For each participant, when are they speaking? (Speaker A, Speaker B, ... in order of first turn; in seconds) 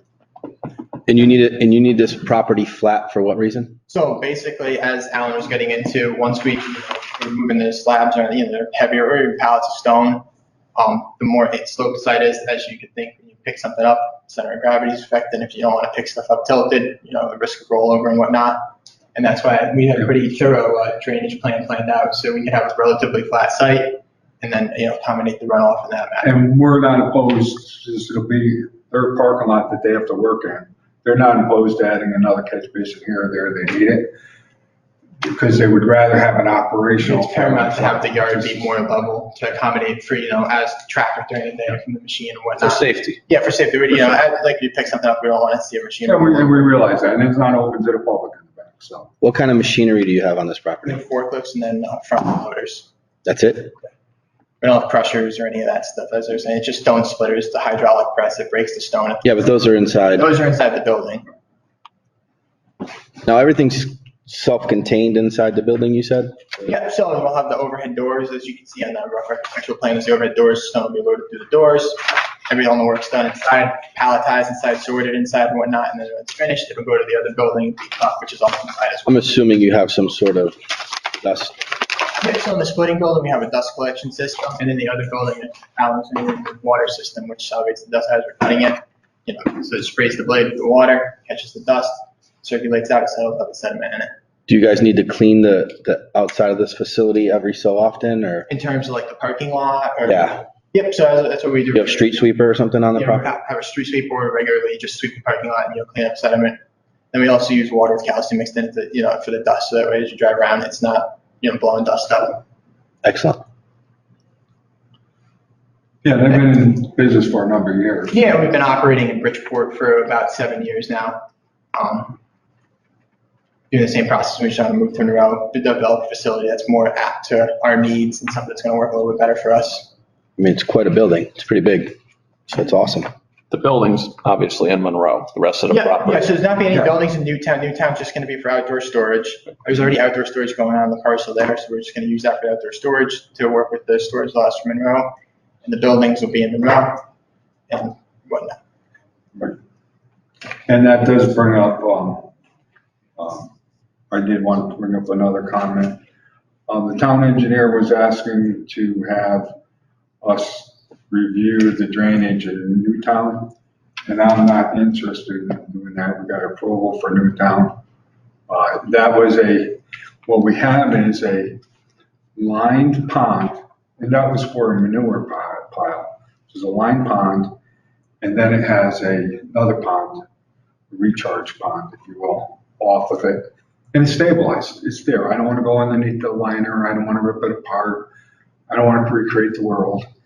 Speaker A: 1.1-3.8, 49.2-51.0, 53.2-53.7, 59.2-60.3, 63.2-66.7, 79.1-81.6, 94.5-98.5, 100.1-100.4, 101.7-103.3, 113.0-113.4, 130.4-132.0, 132.5-133.1
Speaker B: 3.9-10.2, 10.8-18.6, 19.1-26.4, 37.0-46.7, 50.9-52.9, 54.6-59.3, 60.1-61.2, 66.7-79.2, 82.2-94.1, 98.5-102.2, 103.0-106.6, 107.1-112.4, 118.1-121.2, 121.7-122.2, 123.7-129.9, 135.7-147.0, 147.7-148.6
Speaker C: 26.2-34.1, 35.2-38.6, 46.0-49.1, 116.0-118.4, 136.7-137.0, 150.7-152.3, 153.2-153.5, 154.1-156.0, 156.7-159.5, 160.2-163.5, 164.1-167.8, 168.5-171.6, 172.4-177.5, 178.2-180.3, 180.9-188.1, 188.7-190.1
Speaker D: 42.6-43.2, 133.5-136.3